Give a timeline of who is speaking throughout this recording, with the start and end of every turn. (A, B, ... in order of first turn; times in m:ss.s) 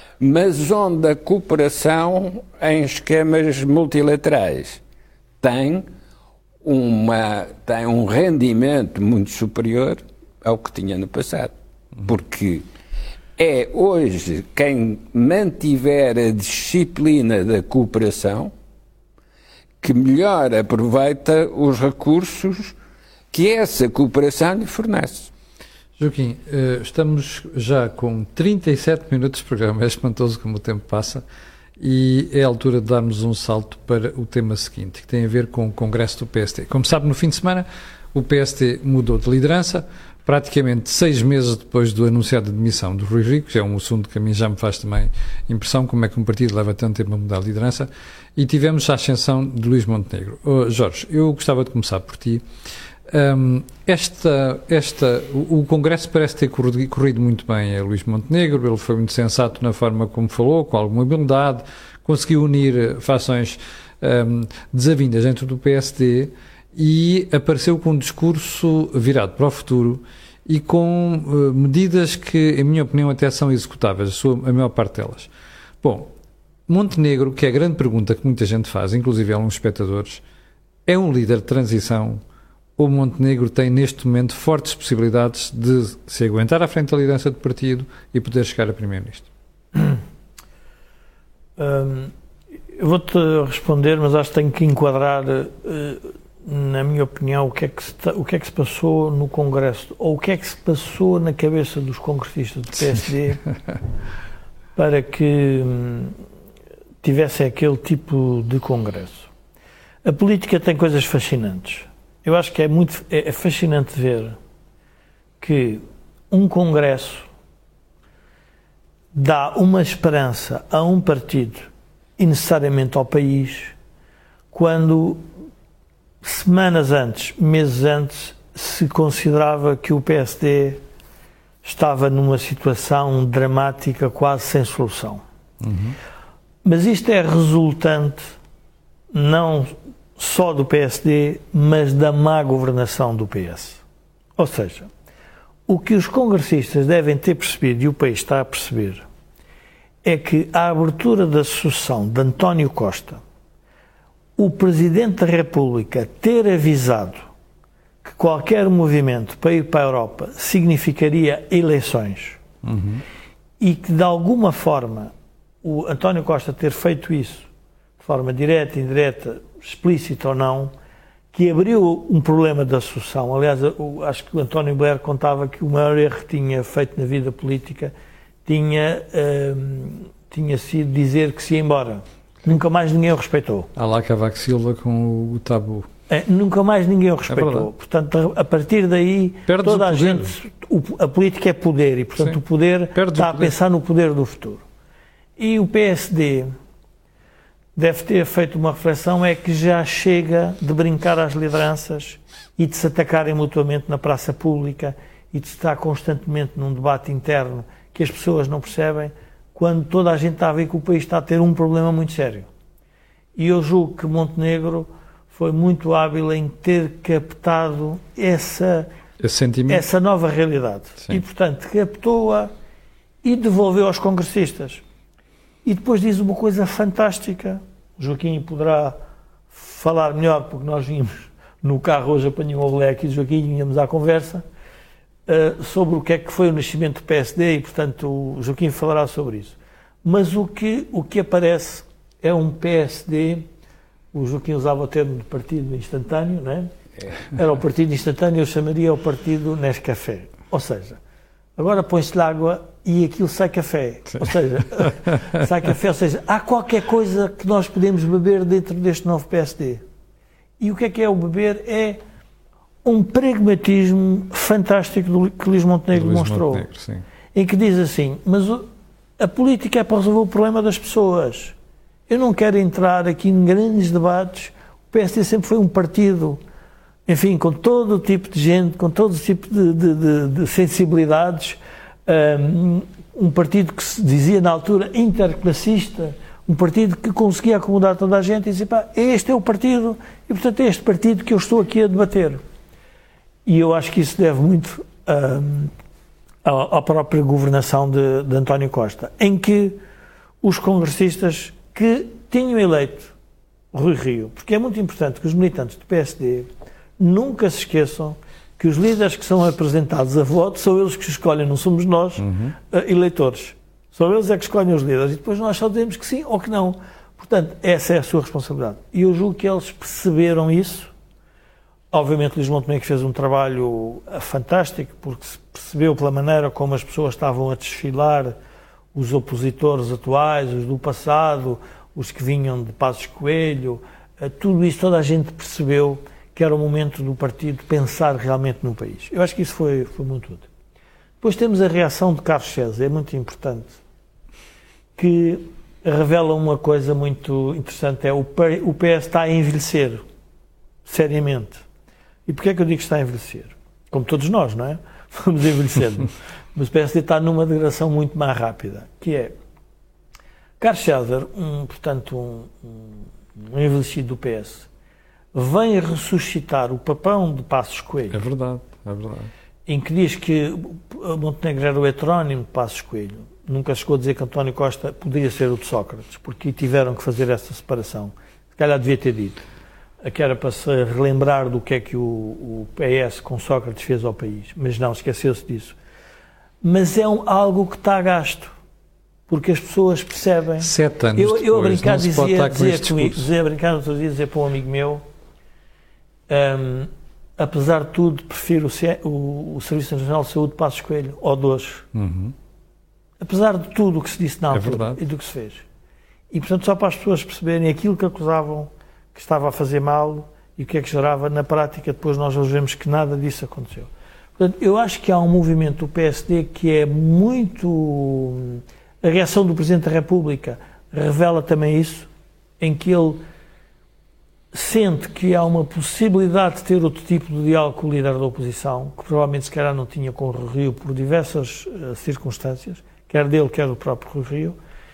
0:00.2-0:04.8 A
0:05.4-0:05.9 A
0:06.6-0:11.5 A
0:12.0-0:12.6 A
0:13.4-0:18.5 A
0:19.8-0:22.8 A
0:23.3-0:25.3 A
0:26.0-0:31.2 B
0:31.8-0:52.4 B
0:53.1-1:15.3 B
1:15.8-1:16.1 B
1:16.7-1:20.2 B
1:20.9-1:22.2 B
1:22.8-1:29.3 B
1:31.6-1:32.1 C
1:32.8-1:43.4 C
1:44.8-1:46.2 C
1:47.0-1:49.3 C
1:50.0-1:54.4 C
1:55.4-1:57.3 C
1:59.1-2:03.8 C
2:04.5-2:05.2 C
2:06.2-2:10.8 C
2:11.6-2:15.2 C
2:15.6-2:16.0 B
2:16.6-2:18.3 C
2:19.1-2:23.8 C
2:24.4-2:24.9 C
2:25.7-2:29.0 C
2:30.0-2:33.2 C
2:34.4-2:37.2 C
2:38.0-2:42.4 C
2:42.6-2:43.0 B
2:43.6-2:45.1 C
2:45.6-2:47.5 C
2:48.0-2:50.7 C
2:51.3-2:57.9 C
2:58.5-3:03.7 C
3:03.8-3:05.9 B
3:06.1-3:14.6 C
3:07.3-3:07.7 B
3:09.5-3:10.3 B
3:13.0-3:13.5 B
3:15.4-3:16.5 C
3:17.8-3:32.5 C
3:33.4-3:38.9 C
3:39.2-3:39.9 B
3:39.7-3:42.5 C
3:43.2-3:44.8 C
3:45.6-3:49.0 C
3:49.5-3:54.4 C
3:55.3-4:03.5 C
4:04.1-4:06.7 C
4:07.3-4:11.0 C
4:11.6-4:19.8 C
4:20.6-4:22.0 C
4:22.8-4:26.7 C
4:25.9-4:27.0 B
4:27.3-4:28.7 C
4:29.2-4:31.6 C
4:32.1-4:36.4 C
4:37.1-4:52.4 C
4:53.5-4:55.7 C
4:56.4-4:59.8 C
5:00.4-5:03.1 C
5:03.7-5:06.5 C
5:07.0-5:20.9 C
5:12.2-5:12.6 B
5:21.9-5:28.3 C
5:28.9-5:40.5 C
5:41.2-5:43.8 C
5:45.0-5:50.0 C
5:50.8-5:51.6 C
5:52.3-5:59.3 C
6:00.6-6:04.7 C
6:05.3-6:08.2 C
6:08.1-6:09.3 B
6:09.7-6:19.4 C
6:20.0-6:25.8 C
6:26.6-6:28.5 C
6:29.3-6:35.0 C
6:30.6-6:33.3 B
6:36.3-6:41.9 C
6:41.9-6:42.3 B
6:43.2-6:45.6 C
6:44.5-6:45.0 B
6:46.3-7:02.1 C
7:02.6-7:03.2 C
7:04.5-7:14.6 C